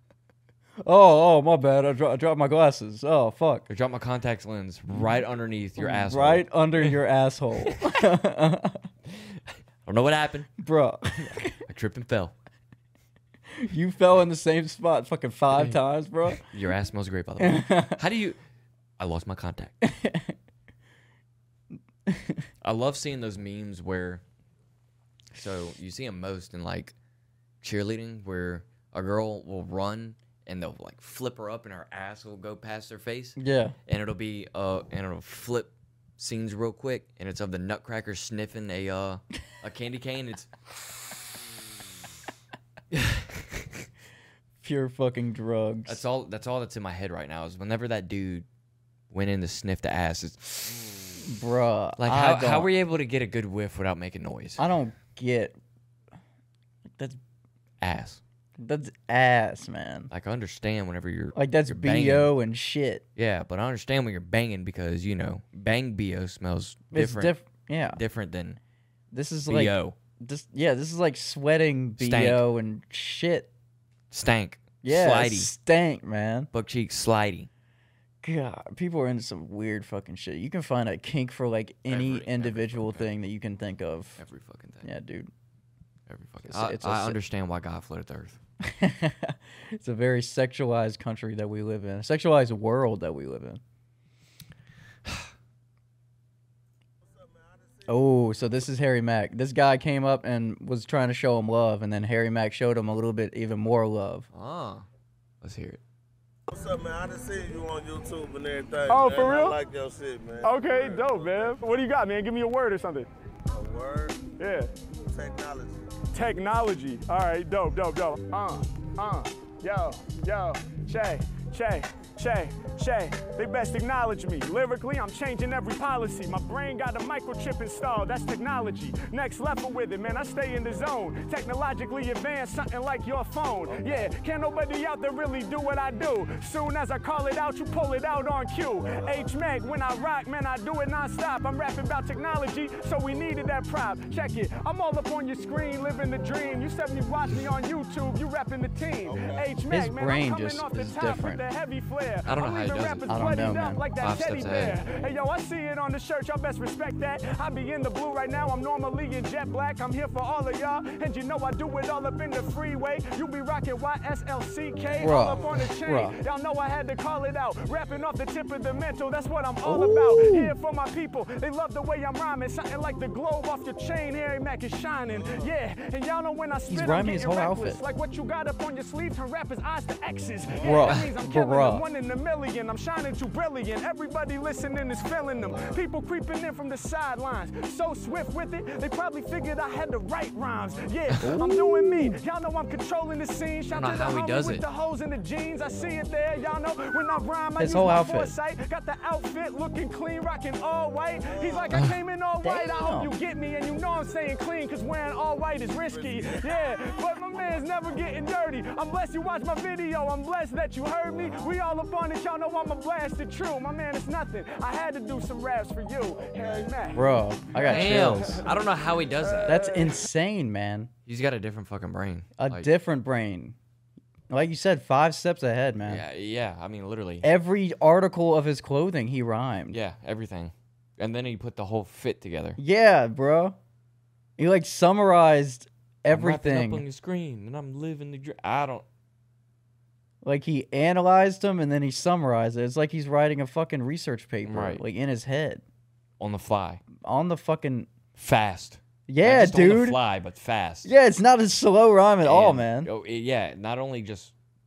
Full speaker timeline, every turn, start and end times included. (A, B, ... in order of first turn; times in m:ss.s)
0:00.8-0:03.6 A
0:03.7-0:06.9 B
0:05.8-0:08.9 A
0:07.6-0:08.0 B
0:09.1-0:10.5 B
0:10.6-0:11.5 A
0:11.2-0:12.3 B
0:13.5-0:16.4 A
0:16.3-0:18.4 B
0:17.4-0:18.0 A
0:19.0-0:19.8 B
0:19.8-0:20.3 A
0:22.1-0:22.4 A
0:22.6-0:24.2 B
0:25.3-0:26.9 B
0:27.6-0:40.5 B
0:33.4-0:33.8 A
0:42.9-0:43.8 B
0:44.6-0:46.0 A
0:45.8-0:48.4 B
0:49.1-0:50.8 B
0:51.2-0:52.7 A
0:52.0-0:54.6 B
0:54.6-0:55.6 A
0:56.8-0:57.2 A
0:57.8-0:58.2 B
0:58.6-1:00.1 A
1:00.1-1:02.3 B
1:01.3-1:03.0 A
1:03.2-1:07.3 B
1:06.9-1:08.0 A
1:07.9-1:08.6 B
1:09.1-1:13.5 A
1:09.5-1:10.0 B
1:12.0-1:12.4 B
1:14.1-1:15.5 B
1:14.8-1:16.5 A
1:16.5-1:17.5 B
1:18.2-1:24.2 A
1:21.9-1:23.1 B
1:24.2-1:24.9 B
1:24.8-1:25.3 A
1:26.1-1:28.4 B
1:26.4-1:27.2 A
1:28.6-1:33.6 A
1:37.0-1:38.7 C
1:37.9-1:44.3 A
1:44.3-1:44.8 B
1:45.4-1:45.8 B
1:46.5-1:51.6 C
1:48.9-1:49.6 D
1:50.4-1:53.1 D
1:53.5-1:54.3 C
1:54.4-1:54.7 D
1:55.0-1:55.8 C
1:56.1-3:37.1 D
2:29.0-2:29.6 C
2:29.7-2:31.4 A
2:32.2-2:33.1 B
2:33.1-2:33.8 A
2:34.0-2:34.8 B
2:45.0-2:46.2 A
2:49.6-2:50.5 A
2:56.7-2:57.8 A
3:00.6-3:01.8 A
3:05.4-3:05.8 C
3:11.2-3:12.2 A
3:13.7-3:14.6 B
3:17.6-3:18.3 A
3:21.3-3:21.8 C
3:21.7-3:22.0 B
3:22.4-3:23.1 A
3:25.8-3:28.1 C
3:36.3-3:36.8 C
3:36.9-3:38.4 A
3:37.5-3:39.6 B
3:39.4-3:40.9 A
3:41.0-3:42.7 B
3:42.4-3:43.6 A
3:44.3-3:46.0 A
3:45.8-3:47.3 B
3:47.2-3:49.8 A
3:49.7-3:52.6 B
3:52.6-3:53.6 A
3:54.4-3:56.8 A
3:56.1-3:58.8 B
4:00.2-4:05.6 A
4:04.4-4:04.8 B
4:06.2-4:06.8 B
4:07.0-4:07.9 A
4:08.1-4:10.9 B
4:09.1-4:10.0 A
4:10.8-4:12.9 A
4:12.2-4:14.3 B